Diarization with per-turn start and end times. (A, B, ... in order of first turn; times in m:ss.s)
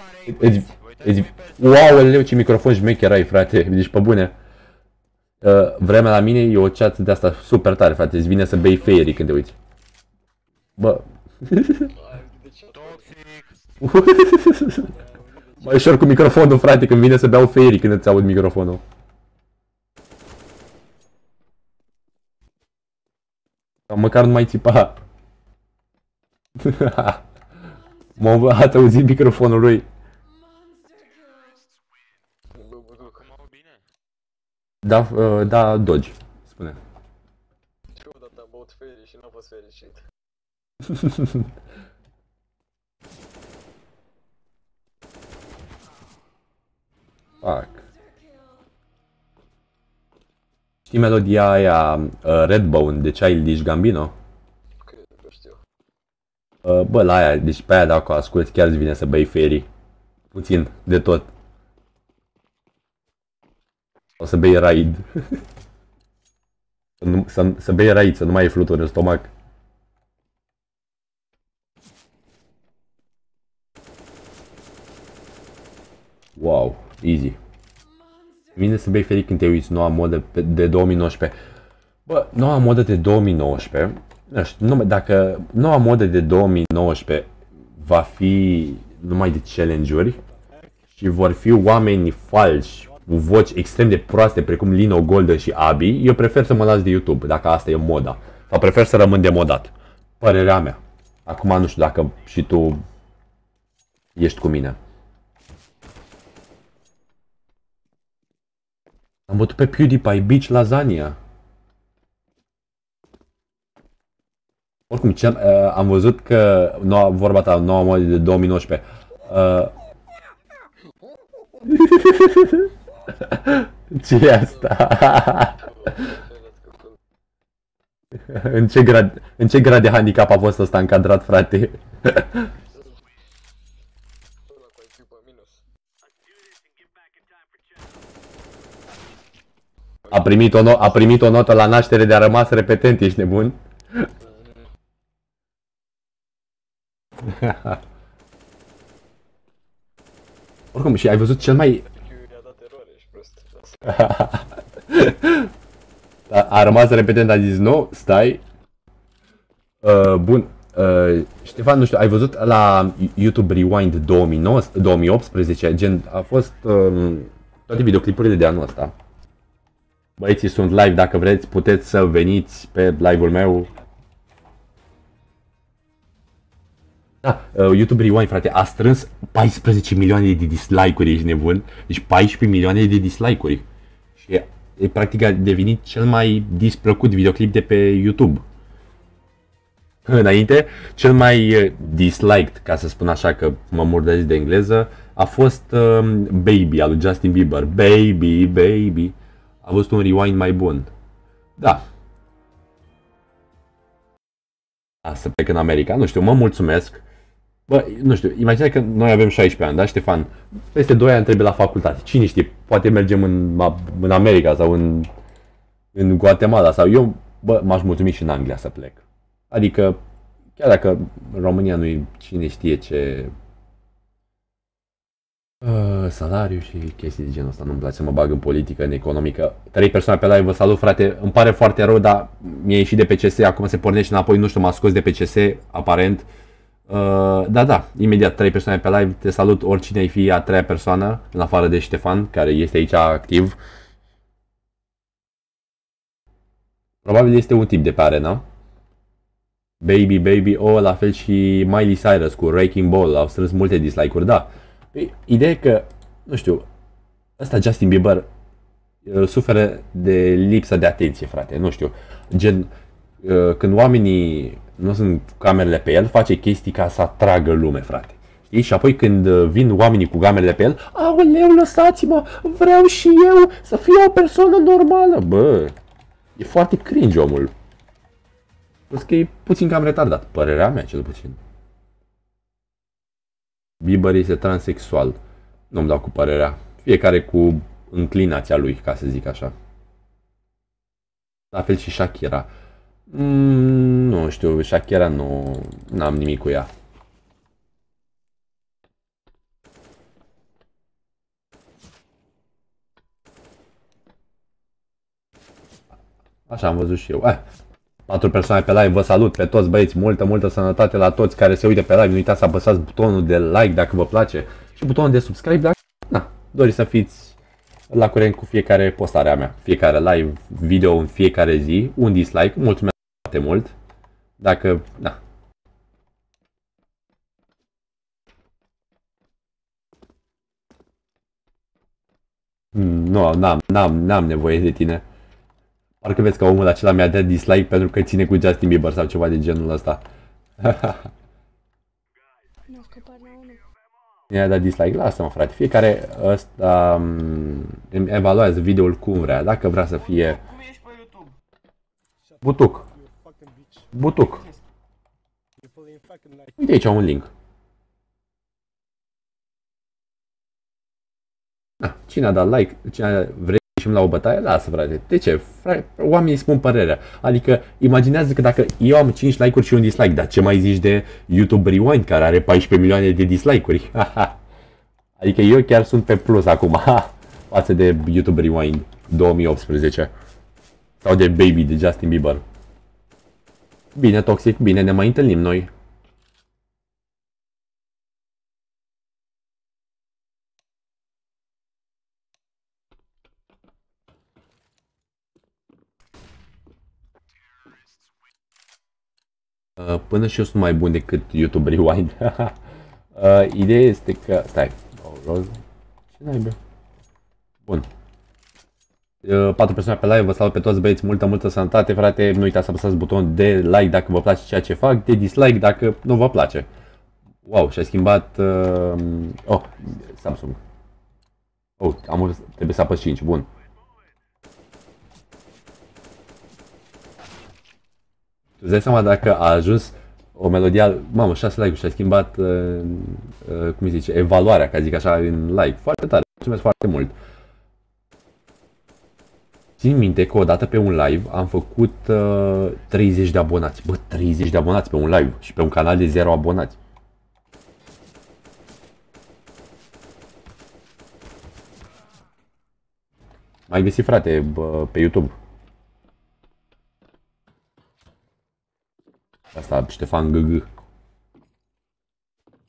0:00.1-0:04.4 A
0:05.4-0:09.6 A
0:10.8-0:11.9 A
0:11.9-0:13.2 B
0:13.8-0:15.0 A
0:14.9-0:15.9 B
0:15.6-0:18.8 A
0:23.9-0:25.0 A
0:26.6-0:27.2 A
0:27.6-0:28.7 C
0:28.2-0:29.9 A
0:30.2-0:31.8 C
0:32.5-0:33.5 B
0:34.8-0:36.8 A
0:37.9-0:40.0 B
0:41.0-0:41.3 A
0:47.3-0:48.7 C
0:47.4-0:47.8 A
0:50.9-0:54.2 A
0:54.8-0:55.6 B
0:56.6-0:59.7 A
1:00.3-1:01.3 A
1:04.2-1:05.4 A
1:07.0-1:09.3 A
1:16.4-1:17.4 A
1:17.8-1:18.8 C
1:18.6-1:21.4 A
1:22.1-1:30.2 A
1:30.5-1:30.8 D
1:31.0-1:42.8 A
1:44.2-1:44.8 A
1:49.3-1:51.2 A
1:54.9-1:59.7 A
2:01.7-2:05.6 A
2:04.2-2:07.0 B
2:08.3-2:12.5 A
2:12.7-2:13.0 B
2:14.5-2:15.6 B
2:20.0-2:20.6 B
2:20.1-2:24.1 A
2:24.2-2:24.7 B
2:27.3-2:27.8 A
2:30.7-2:31.8 A
2:31.6-2:34.2 B
2:33.9-2:35.5 A
2:36.3-2:38.4 A
2:39.8-2:48.9 A
2:50.2-2:53.7 A
2:57.2-3:03.6 A
3:04.2-3:08.4 A
3:10.1-3:20.9 A
3:21.6-3:21.8 A
3:25.0-3:27.0 A
3:27.7-3:35.1 A
3:35.9-3:40.0 A
3:40.6-3:43.3 A
3:45.6-3:56.2 A
3:56.9-4:03.6 A
4:07.0-4:08.4 A
4:09.8-4:16.7 A
4:17.4-4:18.3 A
4:19.0-4:22.7 A
4:23.2-4:35.8 A
4:36.4-4:37.5 A
4:38.9-4:41.4 A
4:43.8-4:45.2 A
4:45.7-4:49.5 A
4:51.5-4:52.5 A
4:53.1-4:56.7 A
5:06.5-5:07.4 A
5:08.1-5:17.4 A
5:17.9-5:23.7 A
5:24.4-5:25.2 A
5:32.7-5:35.0 A
5:36.0-5:40.0 A
5:40.6-5:41.1 A
5:42.7-5:43.7 C
5:44.3-5:50.5 A
5:50.6-5:51.3 D
5:52.3-5:53.9 D
5:52.4-5:52.9 A
5:53.9-5:54.5 A
5:55.6-5:56.6 D
5:56.6-5:57.3 A
6:01.8-6:14.4 A
6:15.2-6:20.1 A
6:21.0-6:22.4 A
6:24.0-6:25.7 A
6:39.8-6:42.6 A
6:43.2-6:45.6 A
6:46.1-6:46.6 A
6:49.2-6:56.7 A
6:57.4-7:00.6 A
7:01.8-7:03.5 A
7:08.6-7:17.1 A
7:19.8-7:26.8 A
7:33.7-7:35.4 A
7:39.5-7:40.7 A